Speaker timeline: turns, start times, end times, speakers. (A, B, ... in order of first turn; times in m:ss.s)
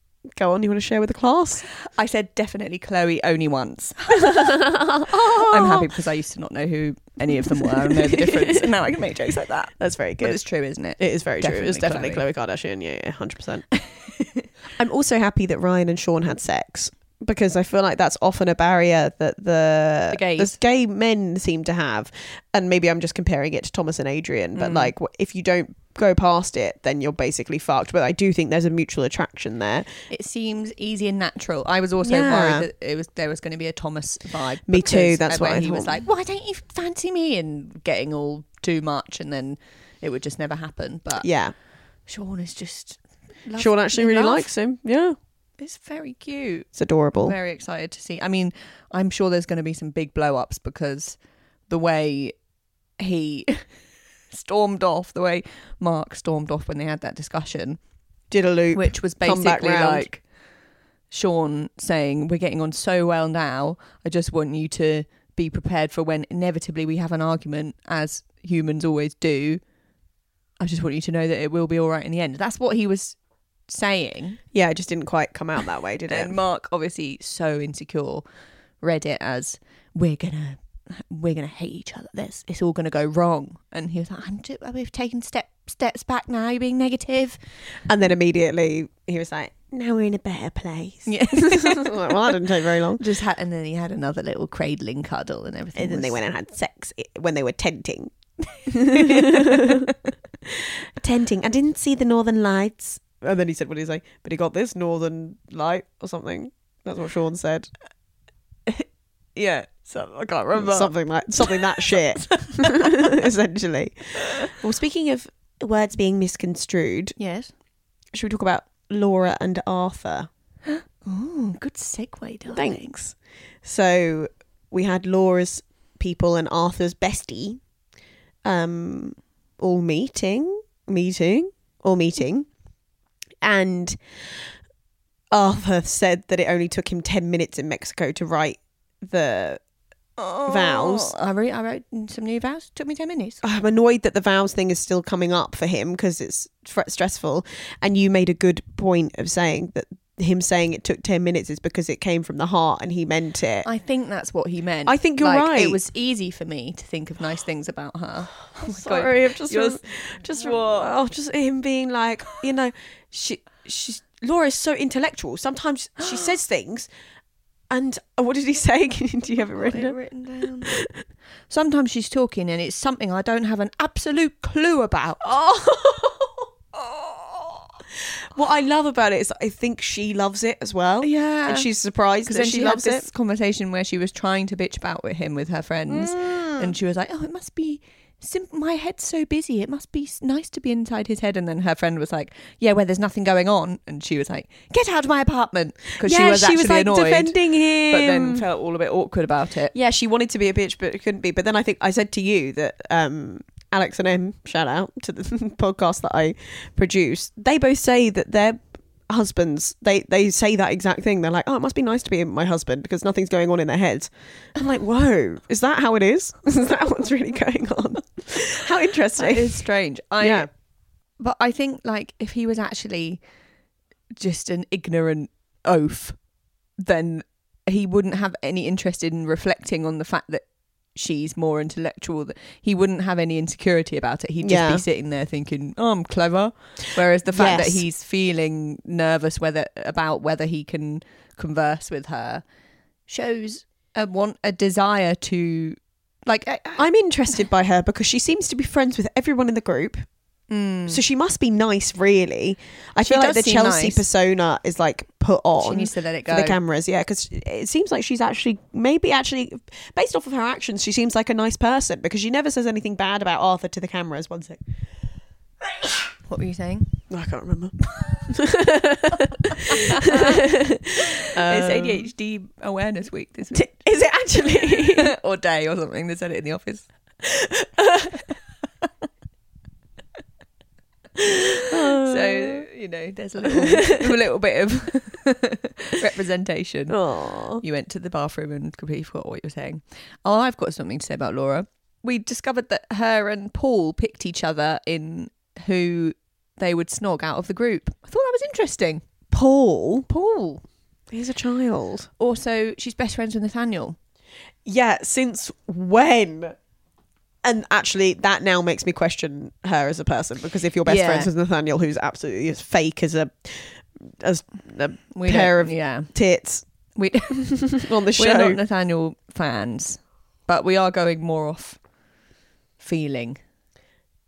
0:00.3-0:01.6 A
0:01.9-0:04.5 B
0:04.1-0:05.9 A
0:05.1-0:12.2 B
0:07.8-0:08.7 A
0:09.8-0:10.4 A
0:11.0-0:13.6 A
0:13.7-0:14.5 B
0:14.8-0:30.0 A
0:20.1-0:20.6 B
0:24.6-0:24.9 B
0:30.1-0:41.3 B
0:32.0-0:32.7 A
0:34.7-0:36.0 A
0:41.2-0:41.5 A
0:42.1-0:44.5 B
0:43.6-0:45.2 A
0:45.6-0:51.2 B
0:46.8-0:47.4 A
0:51.7-0:52.4 B
0:53.0-0:53.7 B
0:54.3-0:57.8 B
0:58.3-1:00.1 A
0:58.7-1:00.2 B
1:01.1-1:09.6 B
1:10.6-1:13.2 B
1:13.7-1:14.4 B
1:14.5-1:16.4 A
1:16.1-1:18.2 B
1:18.8-1:27.4 B
1:27.9-1:33.0 A
1:31.1-1:32.1 B
1:33.0-1:36.2 B
1:35.8-1:38.1 A
1:38.6-1:40.0 B
1:38.7-1:39.9 A
1:40.4-1:47.7 A
1:49.4-1:53.1 B
1:50.5-1:57.2 A
1:57.2-1:57.5 B
1:58.1-2:00.3 A
2:00.7-2:03.0 B
2:02.5-2:07.6 A
2:08.4-2:12.5 A
2:13.4-2:14.0 A
2:15.3-2:19.6 A
2:20.2-2:23.4 B
2:20.5-2:21.1 A
2:23.4-2:33.7 A
2:33.6-2:40.9 B
2:34.9-2:35.8 A
2:38.6-2:46.9 A
2:47.7-2:50.0 A
2:49.4-2:50.8 B
2:50.6-2:50.9 A
2:51.5-2:55.3 B
2:55.2-2:56.5 A
2:56.8-2:57.7 B
2:58.3-3:03.1 A
3:01.0-3:01.7 B
3:02.3-3:19.7 B
3:05.9-3:06.7 A
3:16.0-3:18.4 A
3:19.7-3:39.7 A
3:39.2-3:40.5 B
3:40.2-3:40.5 A
3:41.2-3:43.2 B
3:44.2-3:46.2 B
3:46.8-4:02.4 B
3:54.4-3:54.8 A
3:57.3-3:57.8 A
4:03.1-4:06.9 B
4:06.8-4:10.0 A
4:10.5-4:11.0 B
4:10.9-4:24.6 A
4:13.0-4:14.0 B
4:15.6-4:16.6 B
4:26.3-4:26.9 B
4:27.1-4:32.1 A
4:29.6-4:30.5 B
4:31.0-4:33.6 B
4:33.5-4:35.1 A
4:34.6-4:36.9 B
4:37.2-4:38.3 A
4:41.2-4:47.0 B
4:41.3-4:42.6 A
4:43.4-4:44.2 A
4:46.9-4:47.6 A
4:47.6-4:59.0 B
4:59.3-5:00.1 A
5:00.1-5:00.6 B
5:01.1-5:02.1 A
5:02.2-5:04.0 B
5:04.6-5:06.6 A
5:07.4-5:16.6 A
5:10.9-5:11.3 B
5:15.1-5:16.1 B
5:17.0-5:21.8 B
5:17.4-5:18.6 A
5:22.8-5:23.4 B